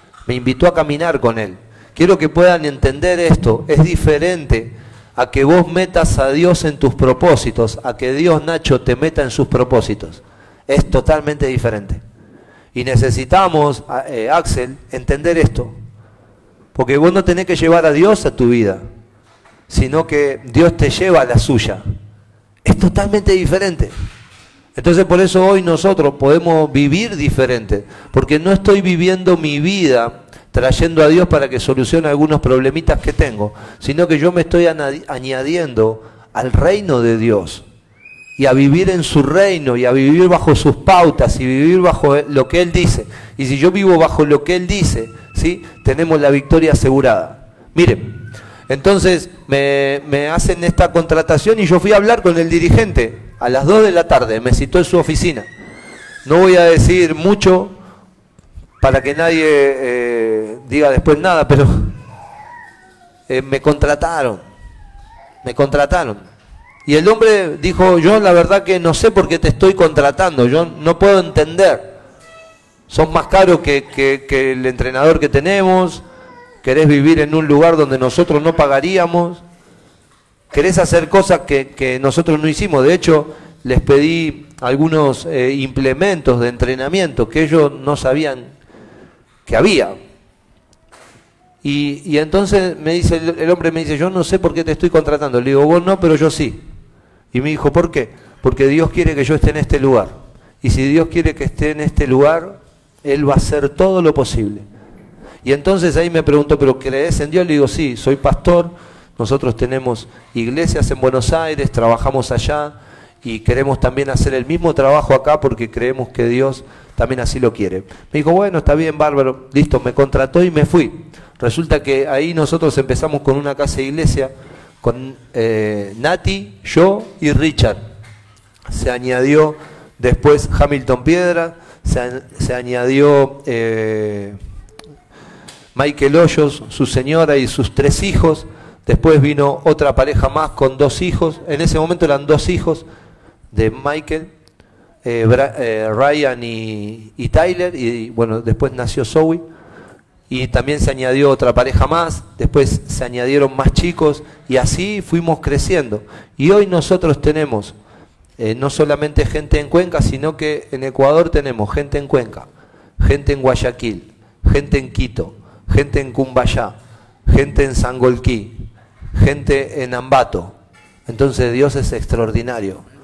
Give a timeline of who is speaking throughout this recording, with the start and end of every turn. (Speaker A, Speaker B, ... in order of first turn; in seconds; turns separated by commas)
Speaker A: 0.3-12.0, Speaker A: 12.7-15.8, Speaker A: 16.8-18.8, Speaker A: 19.7-21.8, Speaker A: 22.6-23.9, Speaker A: 24.8-37.6, Speaker A: 38.4-48.2, Speaker A: 48.7-55.5, Speaker A: 56.2-57.7, Speaker A: 58.8-61.9, Speaker A: 63.3-64.4, Speaker A: 65.4-66.2, Speaker A: 66.9-71.9, Speaker A: 72.9-76.0, Speaker A: 76.6-79.4, Speaker A: 80.5-88.5, Speaker A: 89.5-90.0, Speaker A: 91.6-96.6, Speaker A: 97.3-104.7, Speaker A: 105.4-124.3, Speaker A: 124.8-127.8, Speaker A: 128.7-134.4, Speaker A: 135.8-142.8, Speaker A: 143.5-144.3, Speaker A: 145.1-149.4, Speaker A: 150.3-157.8, Speaker A: 158.4-162.5, Speaker A: 163.0-166.8, Speaker A: 167.3-168.6, Speaker A: 169.2-170.5, Speaker A: 171.1-172.8